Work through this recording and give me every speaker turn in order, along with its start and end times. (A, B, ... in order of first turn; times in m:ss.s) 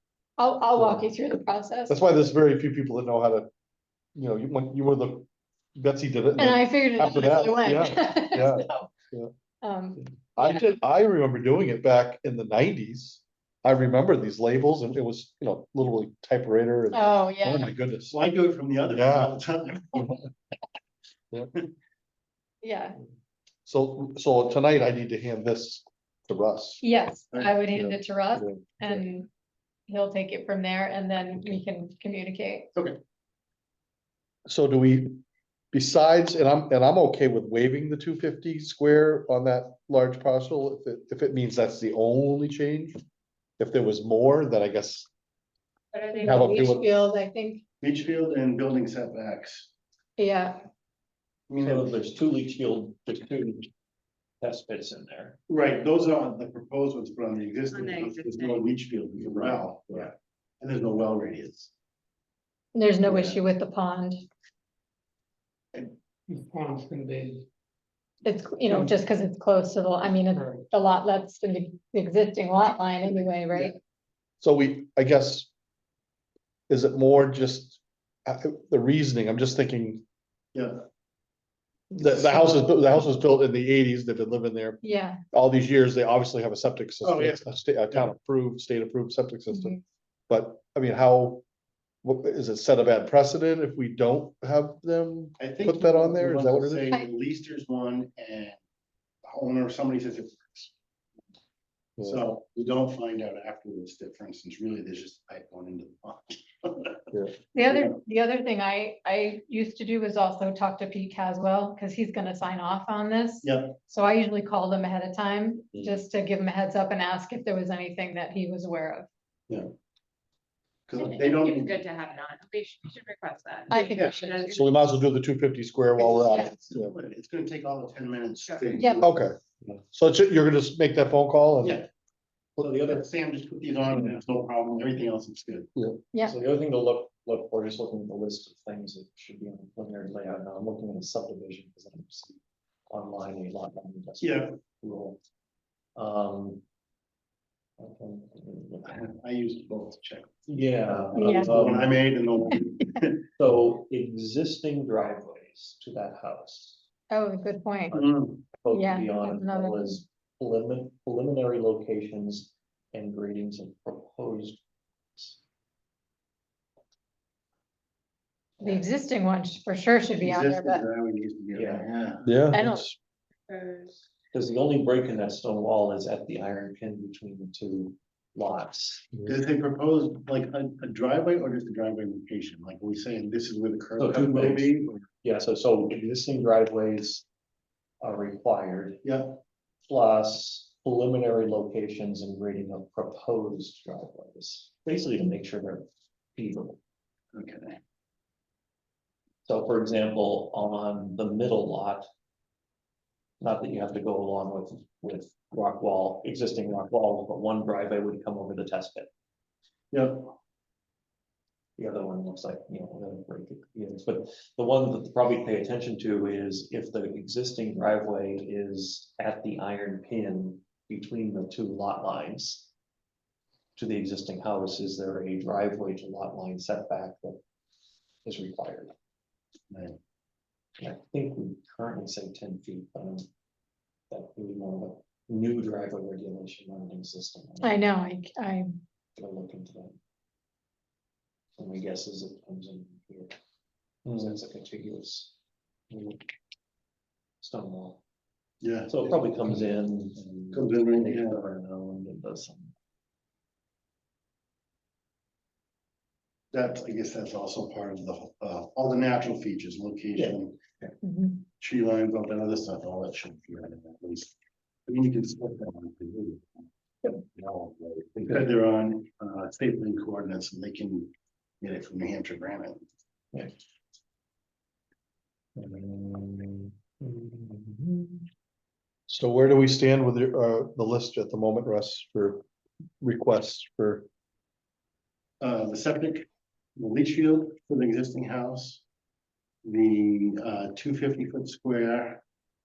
0:00.4-0:02.0 A
0:00.8-0:01.1 B
0:01.9-0:03.5 B
0:04.2-0:09.3 B
0:06.4-0:08.9 A
0:09.6-0:10.5 A
0:10.0-0:18.2 B
0:16.9-0:17.7 A
0:18.1-0:20.1 C
0:18.9-0:19.4 B
0:22.6-0:23.0 A
0:23.6-0:26.8 B
0:26.8-0:29.3 A
0:27.7-0:29.0 B
0:29.9-0:32.7 A
0:34.5-0:35.2 B
0:35.7-0:43.0 B
0:43.6-0:45.1 B
0:45.9-0:46.8 D
0:46.1-0:47.6 A
0:46.2-0:47.0 B
0:47.8-0:49.7 C
0:50.2-0:50.6 A
0:51.5-0:51.9 C
0:51.6-0:53.7 E
0:54.4-0:55.4 E
0:55.5-1:01.7 C
0:57.7-0:58.6 D
1:02.7-1:04.2 A
1:03.1-1:03.4 C
1:05.8-1:07.4 F
1:08.2-1:13.8 A
1:08.6-1:09.0 F
1:10.3-1:10.7 F
1:14.4-1:15.5 B
1:16.7-1:20.0 B
1:20.5-1:20.8 C
1:21.9-1:24.8 B
1:24.8-1:25.2 A
1:25.3-1:29.8 B
1:27.0-1:27.4 C
1:29.5-1:29.8 A
1:30.3-1:31.4 B
1:32.0-1:36.9 B
1:35.4-1:38.6 C
1:39.2-1:40.7 C
1:42.0-1:47.0 C
1:47.5-1:59.1 A
1:47.7-1:48.0 C
1:53.4-1:53.8 C
2:00.9-2:01.8 C
2:01.0-2:04.7 D
2:03.7-2:04.5 A
2:03.9-2:04.2 C
2:04.5-2:06.9 B
2:06.0-2:09.1 C
2:08.4-2:08.7 D
2:08.8-2:09.0 A
2:09.0-2:09.4 B
2:09.9-2:11.8 B
2:11.6-2:11.9 C
2:12.6-2:13.0 E
2:12.7-2:15.7 C
2:16.2-2:22.4 E
2:22.9-2:25.2 E
2:24.2-2:24.5 C
2:26.0-2:26.6 E
2:27.8-2:29.1 E
2:28.9-2:33.3 C
2:30.5-2:32.0 E
2:31.1-2:31.5 A
2:33.4-2:36.8 E
2:37.1-2:38.0 A
2:37.9-2:44.6 E
2:37.9-2:38.4 C
2:38.7-2:40.0 A
2:48.6-2:48.9 E
2:48.6-2:50.8 A
2:50.2-2:52.2 C
2:51.5-2:51.9 E
2:52.2-2:52.9 B
2:52.5-2:52.9 A
2:53.5-2:53.9 D
2:54.3-2:59.0 E
2:59.3-3:05.0 C
3:04.0-3:07.2 E
3:08.0-3:09.0 E
3:09.8-3:16.8 E
3:17.3-3:17.8 C
3:19.4-3:22.1 E
3:23.4-3:29.1 E
3:29.9-3:30.3 C
3:31.8-3:42.7 E
3:43.8-3:47.4 E
3:48.2-3:48.9 E
3:49.7-3:50.0 C
3:50.8-3:53.3 E
3:54.1-3:57.8 E
3:57.6-3:58.8 A
3:59.2-4:00.0 E
4:01.6-4:03.3 E
4:04.0-4:04.4 B
4:04.1-4:05.3 E
4:05.9-4:06.2 E
4:07.4-4:08.0 E
4:08.6-4:09.3 C
4:08.9-4:12.7 E
4:10.5-4:11.4 C
4:16.5-4:20.6 C
4:20.2-4:20.9 E
4:21.0-4:21.4 A
4:21.6-4:24.3 C
4:24.9-4:31.1 C
4:31.6-4:32.8 C
4:35.6-4:38.2 B
4:39.1-4:42.4 B
4:43.0-4:44.0 B
4:45.4-4:48.8 C
4:49.6-4:52.2 C